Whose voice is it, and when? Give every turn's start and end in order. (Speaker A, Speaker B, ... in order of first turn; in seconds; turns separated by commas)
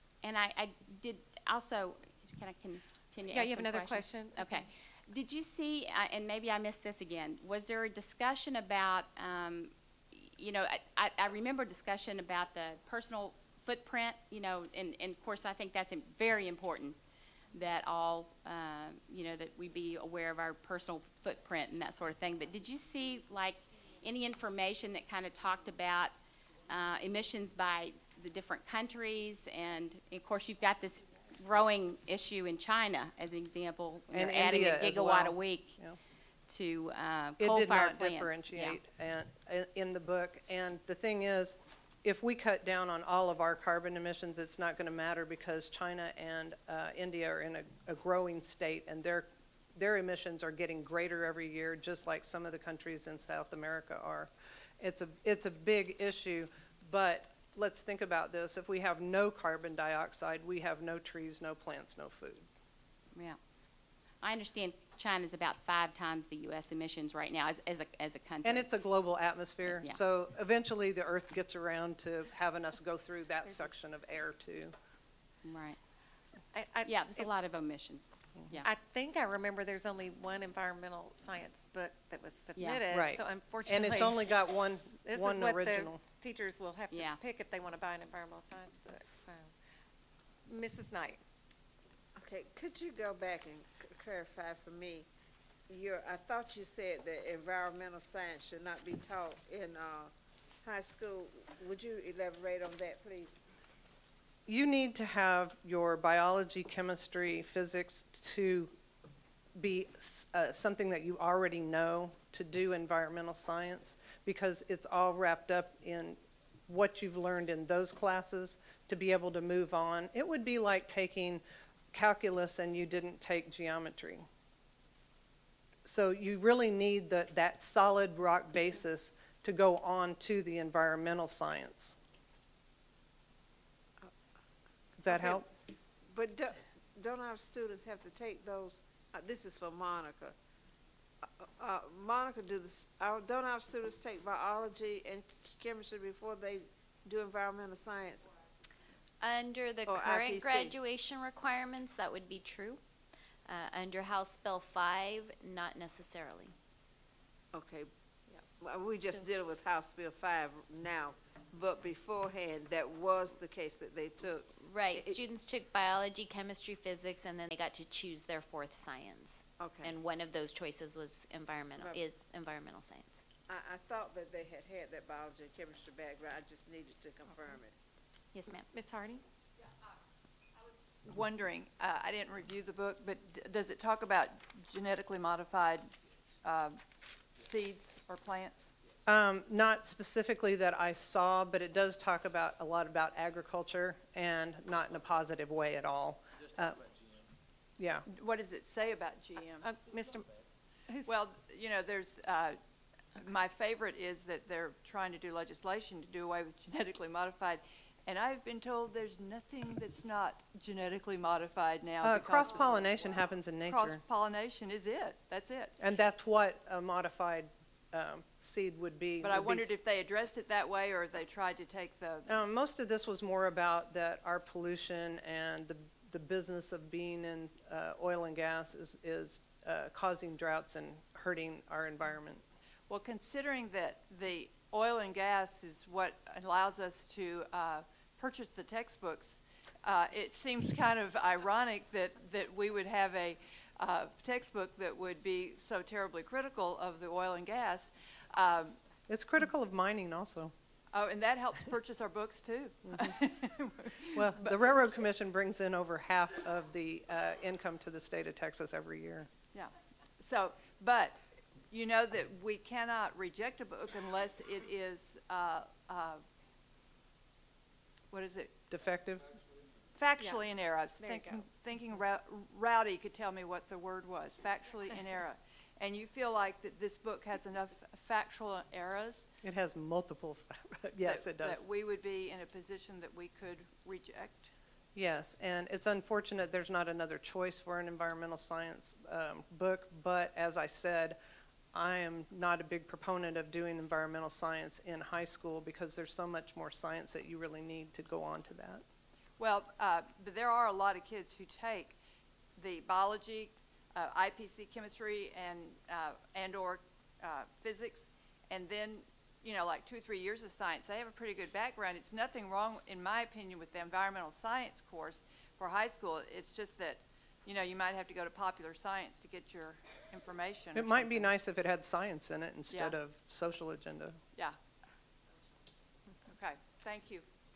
Speaker A: 0.2-17.0, Speaker B: 3.3-4.6, Speaker A: 17.5-26.1, Speaker A: 26.7-35.8, Speaker C: 34.1-36.0, Speaker A: 36.5-38.8, Speaker C: 37.4-62.5, Speaker A: 64.2-68.7, Speaker C: 68.4-74.7, Speaker A: 69.7-70.0, Speaker A: 75.4-75.8, Speaker B: 76.5-77.3, Speaker A: 76.8-78.7, Speaker B: 78.6-84.2, Speaker A: 82.6-82.8, Speaker C: 82.9-86.0, Speaker B: 85.0-89.5, Speaker A: 86.9-87.2, Speaker B: 90.5-91.2, Speaker D: 92.2-95.1, Speaker D: 95.7-100.1, Speaker D: 100.6-103.4, Speaker C: 104.5-108.7, Speaker C: 109.6-121.4, Speaker C: 121.9-124.3, Speaker C: 125.9-132.0, Speaker C: 135.0-135.5, Speaker D: 135.1-135.5, Speaker D: 136.1-140.3, Speaker D: 141.2-148.3, Speaker E: 149.2-152.8, Speaker D: 149.8-150.8, Speaker E: 153.4-156.5, Speaker D: 157.5-165.2, Speaker E: 164.6-173.2, Speaker D: 169.6-170.0, Speaker D: 171.8-172.1, Speaker D: 173.5-177.7, Speaker E: 178.3-178.7, Speaker B: 178.5-179.2, Speaker F: 181.0-185.9, Speaker F: 186.4-186.8, Speaker F: 187.4-188.7, Speaker C: 189.1-196.9, Speaker C: 197.8-198.1, Speaker F: 198.1-199.7, Speaker B: 199.6-200.3, Speaker B: 200.9-201.2, Speaker F: 201.1-202.6, Speaker F: 203.2-215.7, Speaker C: 212.0-214.0, Speaker D: 212.6-213.0, Speaker C: 215.8-219.7, Speaker F: 219.2-222.3, Speaker C: 222.3-232.4, Speaker F: 232.9-248.8, Speaker C: 249.1-250.5, Speaker F: 250.9-254.6, Speaker C: 254.1-259.3, Speaker F: 259.5-266.2, Speaker F: 268.1-268.5, Speaker C: 268.7-269.3, Speaker F: 269.9-279.2, Speaker B: 270.2-270.4, Speaker B: 271.0-271.4, Speaker C: 279.4-281.6, Speaker F: 281.0-284.5, Speaker C: 284.9-291.2, Speaker C: 291.7-298.8, Speaker F: 299.4-302.0, Speaker F: 302.6-321.3, Speaker C: 320.7-324.2, Speaker F: 322.7-323.0, Speaker F: 326.3-327.2